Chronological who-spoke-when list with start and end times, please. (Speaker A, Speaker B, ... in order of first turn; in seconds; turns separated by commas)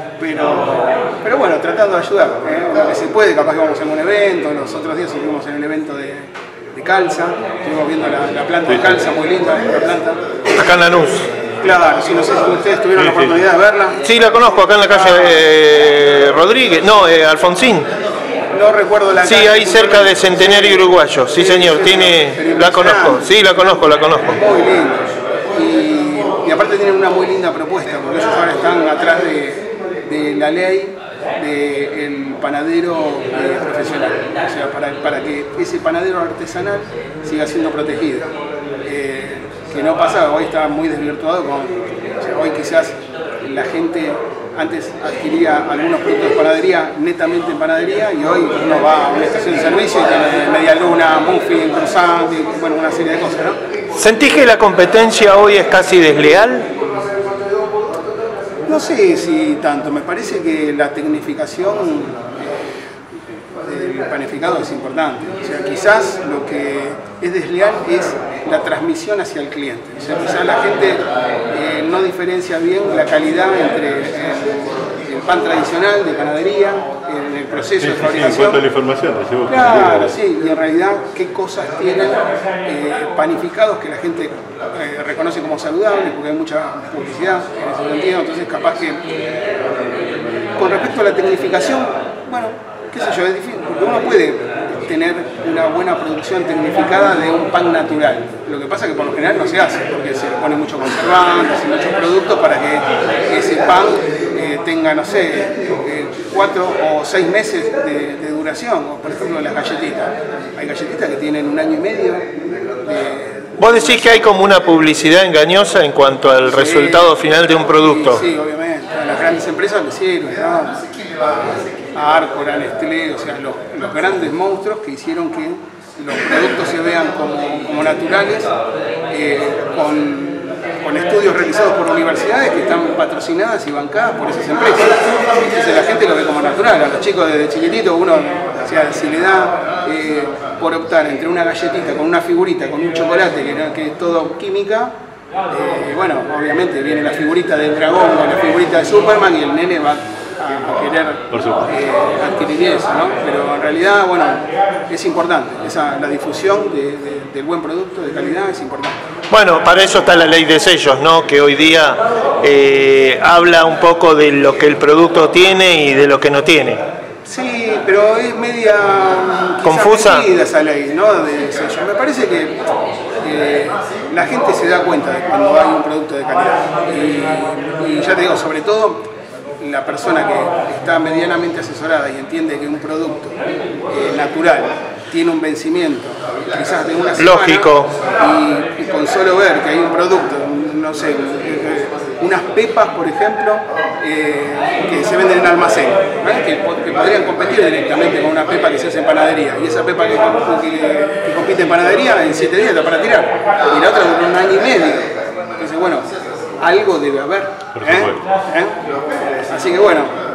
Speaker A: 0.2-10.2, Speaker B: 8.7-9.0, Speaker C: 10.5-11.3, Speaker A: 11.6-14.0, Speaker B: 13.0-13.4, Speaker C: 14.0-17.9, Speaker A: 15.0-15.3, Speaker A: 18.5-25.0, Speaker C: 19.2-24.4, Speaker A: 25.5-38.3, Speaker A: 38.8-53.6, Speaker C: 54.0-56.7, Speaker A: 58.6-62.2, Speaker A: 63.6-78.6, Speaker B: 77.8-80.1, Speaker A: 79.5-89.0, Speaker A: 90.5-112.2, Speaker A: 112.8-114.2, Speaker C: 113.6-118.2, Speaker A: 116.5-117.1, Speaker A: 117.7-120.8, Speaker A: 121.9-128.5, Speaker A: 129.1-144.9, Speaker A: 145.5-159.0, Speaker B: 151.3-151.7, Speaker C: 159.3-166.8, Speaker A: 167.2-172.6, Speaker C: 169.6-170.2, Speaker A: 173.2-179.0, Speaker A: 179.6-183.3, Speaker A: 183.9-206.1, Speaker C: 187.2-187.9, Speaker A: 206.6-208.8, Speaker B: 207.7-208.2, Speaker A: 209.5-210.1